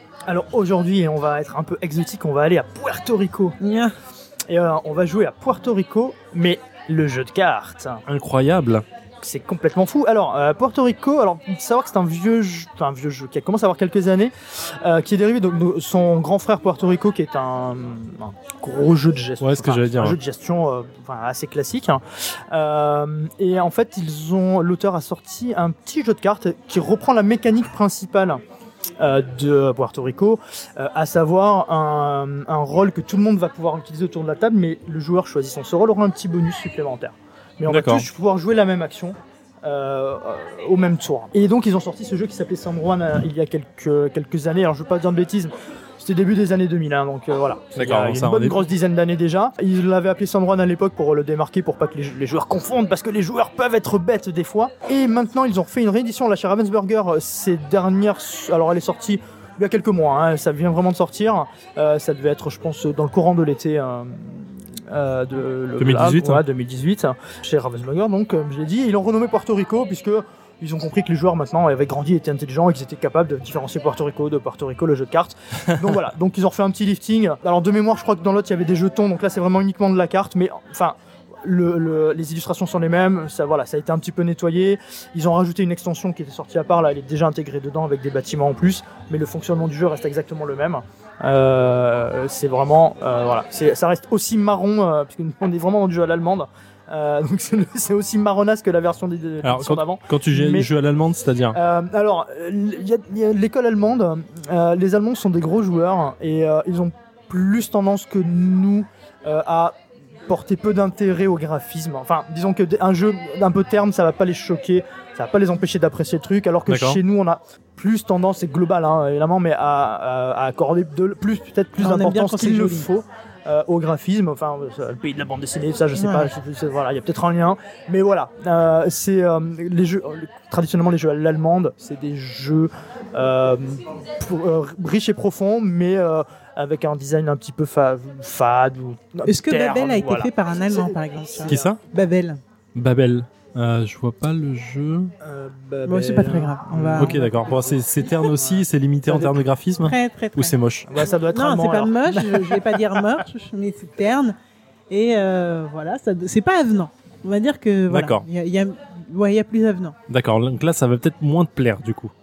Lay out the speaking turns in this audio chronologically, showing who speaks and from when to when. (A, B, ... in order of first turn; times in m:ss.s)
0:00.3-0:03.6 A
0:03.6-0:03.9 B
0:04.5-0:08.0 A
0:08.1-0:08.8 C
0:09.2-0:28.4 A
0:19.4-0:20.2 C
0:29.0-1:40.7 A
0:37.7-0:38.1 C
0:47.8-0:48.6 C
1:05.8-1:06.4 C
1:39.4-1:41.6 C
1:41.5-1:49.8 A
1:50.3-2:21.7 A
1:56.6-1:57.0 C
2:01.8-2:02.9 B
2:05.9-2:06.3 B
2:19.2-2:22.4 B
2:21.5-2:21.8 C
2:22.7-2:25.1 C
2:25.2-2:29.4 A
2:25.8-2:27.6 B
2:26.9-2:30.9 C
2:29.8-2:34.3 B
2:30.8-2:33.0 A
2:34.9-2:40.0 B
2:37.9-2:38.2 C
2:40.1-2:42.1 C